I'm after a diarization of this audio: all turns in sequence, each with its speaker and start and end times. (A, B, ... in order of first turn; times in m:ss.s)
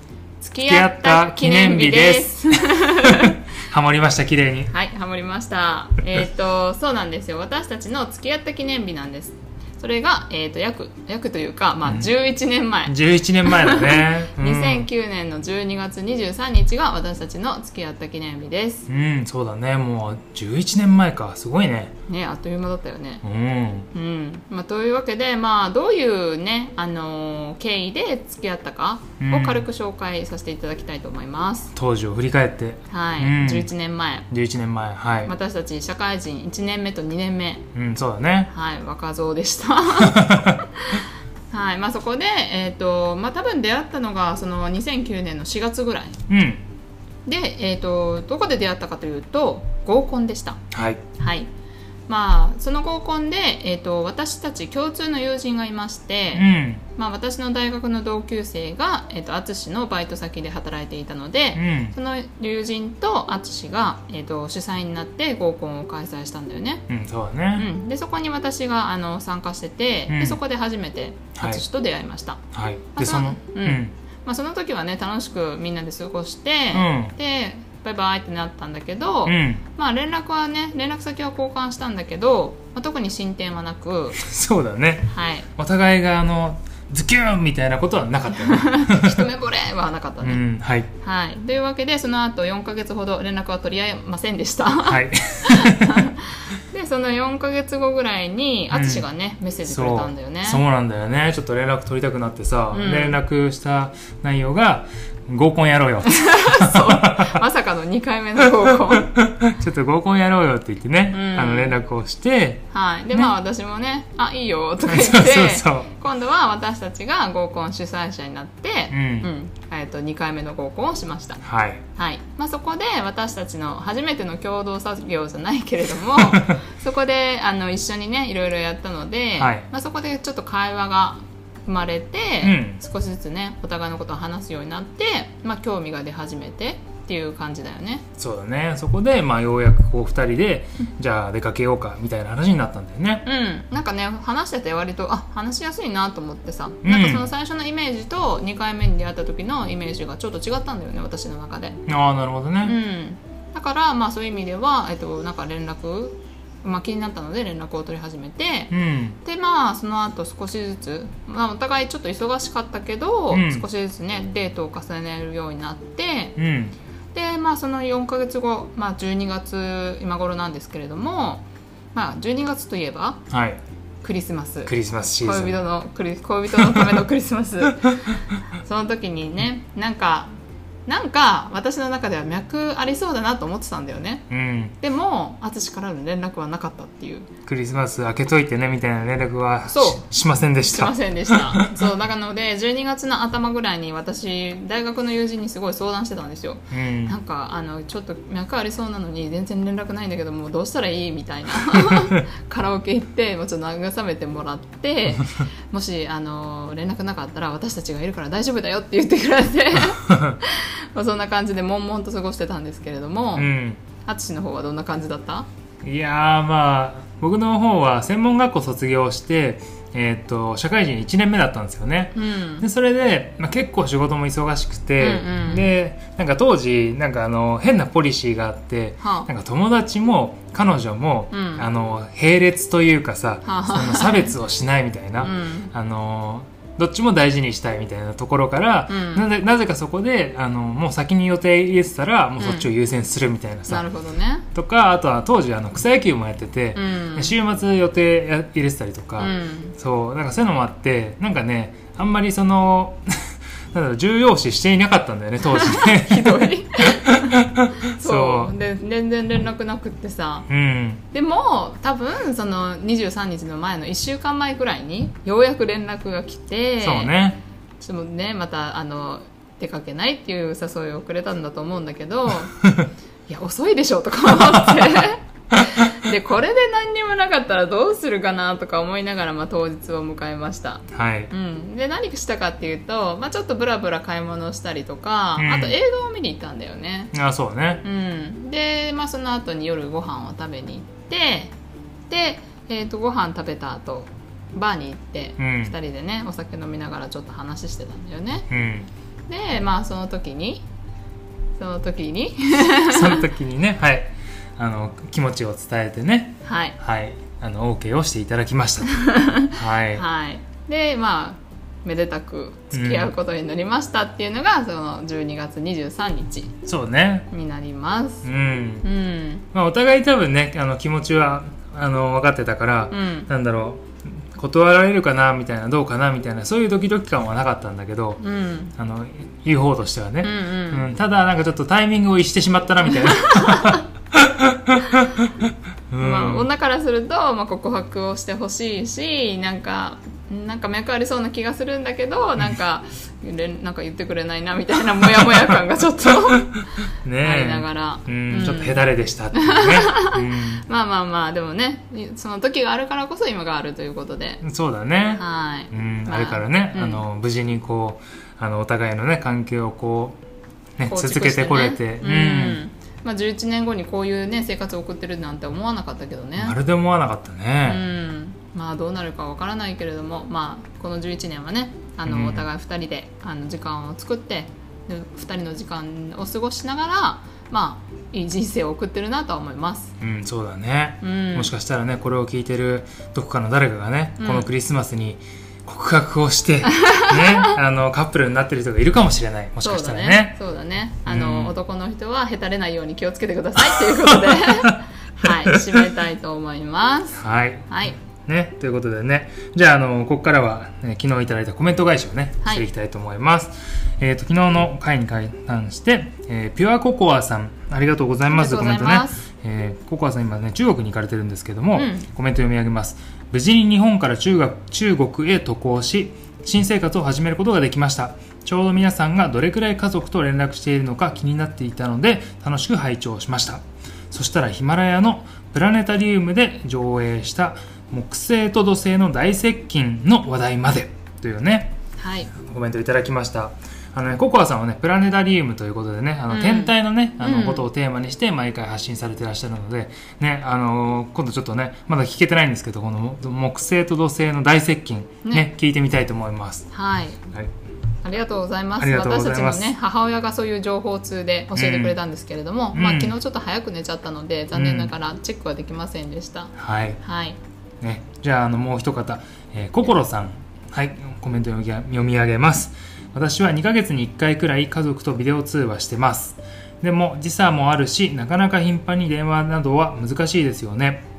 0:00.4-0:03.4 A
0:00.6-0:04.7 B
0:04.7-0:18.9 A
0:12.9-0:14.9 B
0:18.9-0:21.9 B
0:22.1-0:23.2 A
0:23.2-0:23.9 B
0:23.9-0:31.7 A
0:29.2-0:29.6 B
0:31.7-0:33.7 B
0:32.9-0:34.3 A
0:34.3-0:35.3 B
0:35.2-0:37.6 A
0:37.7-0:38.5 B
0:38.5-0:46.2 A
0:40.0-0:40.6 B
0:46.3-0:46.6 B
0:47.2-0:50.6 A
0:50.7-0:51.0 B
0:51.2-0:51.5 A
0:52.1-1:06.8 A
0:56.3-0:56.8 B
1:01.6-1:02.0 B
1:06.9-1:07.7 B
1:07.6-1:12.4 A
1:10.1-1:10.4 B
1:11.4-1:11.6 B
1:12.5-1:13.9 B
1:13.0-1:24.2 A
1:16.7-1:17.1 B
1:19.2-1:19.6 B
1:24.2-1:29.2 B
1:25.1-1:25.5 A
1:28.5-1:30.4 A
1:30.2-1:30.9 B
1:31.0-1:40.6 A
1:34.8-1:36.0 B
1:38.7-1:39.0 B
1:39.6-1:47.4 B
1:42.7-1:43.2 A
1:46.1-1:49.1 A
1:49.2-1:52.6 B
1:51.1-1:51.8 A
1:52.7-2:01.4 A
1:54.8-1:55.9 B
1:58.9-1:59.3 B
2:01.4-2:01.8 B
2:02.0-2:18.0 A
2:09.4-2:09.6 B
2:12.4-2:12.8 B
2:18.2-2:23.2 B
2:23.2-2:31.8 A
2:26.8-2:27.3 B
2:31.8-2:32.8 B
2:32.6-2:46.3 A
2:38.7-2:39.2 B
2:43.3-2:43.6 B
2:46.4-2:46.8 B
2:47.1-2:53.2 A
2:53.3-2:53.6 B
2:54.0-3:00.3 A
2:54.6-2:55.6 B
3:00.8-3:04.2 A
3:04.3-3:04.7 B
3:04.8-3:07.3 A
3:07.4-3:11.7 B
3:09.7-3:10.0 A
3:10.6-3:33.5 A
3:16.7-3:17.2 B
3:30.1-3:30.4 B
3:33.4-3:33.8 B
3:34.0-3:35.5 A
3:35.8-4:03.9 B
3:42.1-3:42.6 A
3:45.0-3:45.7 A
3:49.0-3:49.3 A
3:51.3-3:51.7 A
3:53.4-3:54.3 A
3:55.2-3:55.7 A
3:58.9-3:59.2 A
4:02.4-4:02.7 A
4:03.7-4:04.4 A
4:04.5-4:18.5 B
4:06.7-4:07.3 A
4:09.2-4:09.7 A
4:15.5-4:17.4 A
4:17.9-4:20.5 A
4:20.5-4:21.0 B
4:21.1-4:27.1 A
4:26.8-4:27.4 B
4:27.8-4:32.5 A
4:33.3-4:47.1 A
4:40.9-4:41.3 B
4:45.4-4:45.8 B
4:47.1-4:47.8 B
4:47.8-4:51.5 A
4:52.1-4:58.5 A
4:55.4-4:55.7 B
4:58.5-4:58.9 B
4:59.3-5:00.6 A
5:01.6-5:03.2 A
5:02.8-5:10.0 B
5:06.4-5:06.8 A
5:08.9-5:16.6 A
5:12.7-5:13.1 B
5:16.6-5:17.3 B
5:17.3-5:18.2 A
5:18.2-5:18.9 B
5:18.8-5:19.4 A
5:19.5-5:28.2 B
5:22.9-5:23.3 A
5:28.2-5:28.7 A
5:28.8-5:35.3 B
5:30.2-5:30.8 A
5:32.9-5:33.8 A
5:35.9-5:36.5 B
5:36.0-5:46.5 A
5:47.0-5:50.6 B
5:47.2-5:48.8 A
5:49.3-5:54.4 A
5:54.4-6:00.2 B
5:55.1-5:57.0 A
6:00.8-6:02.6 B
6:00.8-6:06.6 A
6:06.4-6:07.8 B
6:07.6-6:19.9 A
6:12.0-6:12.5 B
6:20.0-6:30.4 B
6:21.0-6:21.5 A
6:24.2-6:24.5 A
6:26.8-6:27.5 A
6:29.6-6:38.0 A
6:31.0-6:31.5 B
6:35.5-6:35.8 B
6:37.2-7:11.7 B
6:48.3-6:49.2 A
6:51.7-6:52.0 A
7:12.0-7:12.3 A
7:12.4-7:26.7 B
7:16.3-7:17.7 A
7:26.7-7:27.2 A
7:28.0-7:37.4 A
7:28.8-7:29.7 B
7:31.5-7:32.0 B
7:32.7-7:33.2 B
7:34.5-7:34.9 B
7:36.6-7:37.0 B
7:37.8-7:51.0 B